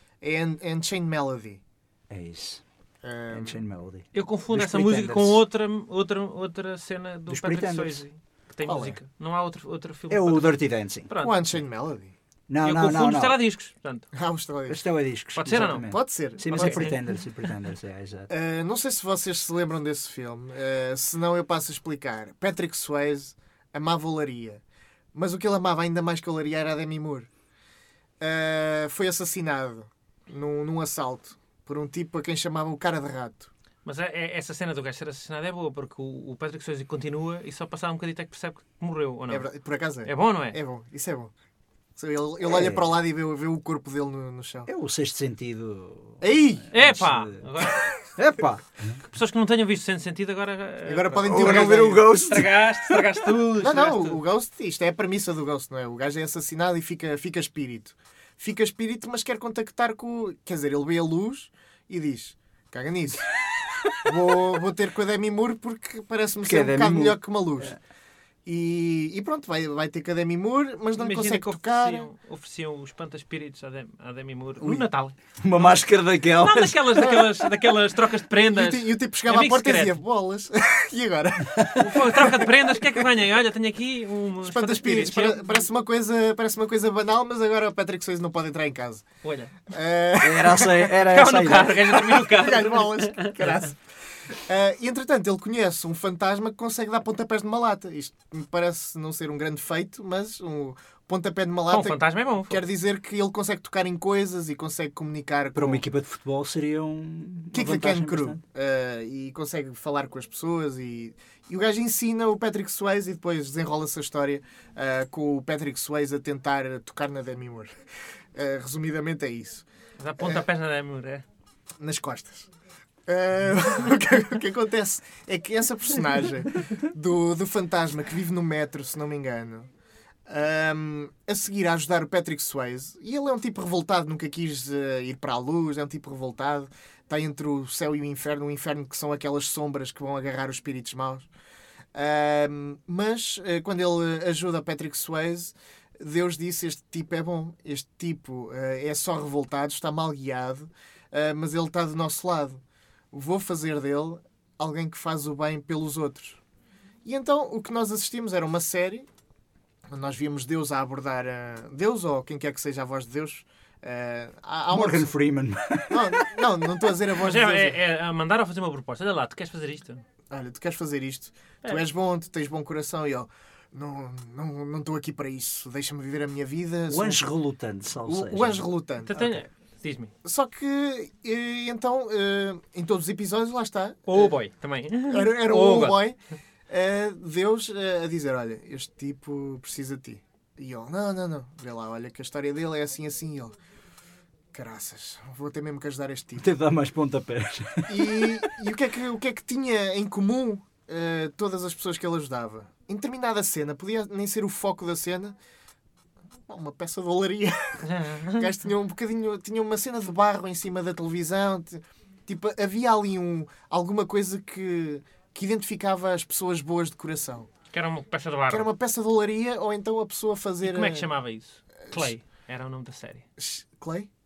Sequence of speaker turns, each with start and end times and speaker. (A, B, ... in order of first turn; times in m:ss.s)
0:00.2-0:01.6 A
0:02.1-0:02.6 B
0:03.0-0:03.6 A
0:03.3-0:05.4 B
0:04.1-0:11.4 C
0:07.3-0:08.0 B
0:08.6-0:09.0 A
0:10.1-0:11.1 B
0:11.2-0:12.1 A
0:12.5-0:13.4 B
0:12.6-0:14.0 C
0:14.1-0:14.8 A
0:14.7-0:18.3 B
0:15.4-0:15.9 C
0:15.8-0:16.9 A
0:16.5-0:17.0 C
0:18.3-0:24.6 A
0:25.1-0:27.3 A
0:28.2-0:33.5 A
0:33.8-0:39.4 C
0:39.3-0:41.3 A
0:40.0-0:40.6 C
0:42.0-0:44.7 A
0:42.4-0:42.9 B
0:44.7-0:47.4 B
0:46.2-0:46.9 A
0:46.7-0:47.8 C
0:47.6-0:48.0 A
0:48.2-0:49.0 B
0:49.1-0:54.2 C
0:50.9-0:52.1 A
0:51.2-0:53.0 B
0:53.6-1:03.3 A
1:03.8-1:04.4 B
1:04.0-1:07.8 A
1:06.4-1:07.8 B
1:08.4-1:12.1 A
1:11.0-1:15.8 C
1:15.4-1:17.2 B
1:16.4-1:20.0 C
1:17.0-1:17.3 A
1:18.4-1:22.9 A
1:21.8-1:25.6 C
1:24.4-1:29.0 A
1:29.2-1:29.5 C
1:29.7-1:30.9 A
1:30.2-1:31.9 B
1:31.1-1:33.7 C
1:31.9-1:33.8 A
1:34.3-1:45.8 A
1:41.7-1:42.6 C
1:45.5-1:48.4 B
1:47.5-1:57.7 A
1:58.3-1:59.6 A
2:00.0-2:01.2 C
2:01.8-2:02.5 A
2:03.1-2:09.7 A
2:10.3-2:21.3 A
2:21.9-2:32.6 A
2:33.1-2:36.4 A
2:37.0-2:39.1 A
2:39.9-2:45.1 A
2:44.7-2:46.5 B
2:45.9-2:47.8 A
2:47.2-2:50.0 C
2:50.3-2:57.3 A
2:56.9-2:58.7 B
2:58.0-2:59.3 A
2:59.0-3:00.1 C
3:00.2-3:04.3 A
3:04.1-3:06.0 C
3:05.1-3:06.2 A
3:06.7-3:13.6 A
3:14.5-3:16.5 A
3:16.4-3:18.5 B
3:17.9-3:25.4 A
3:26.5-3:37.5 A
3:27.8-3:28.4 C
3:37.7-3:38.7 C
3:38.5-3:41.1 A
3:40.6-3:43.2 C
3:43.4-3:44.1 A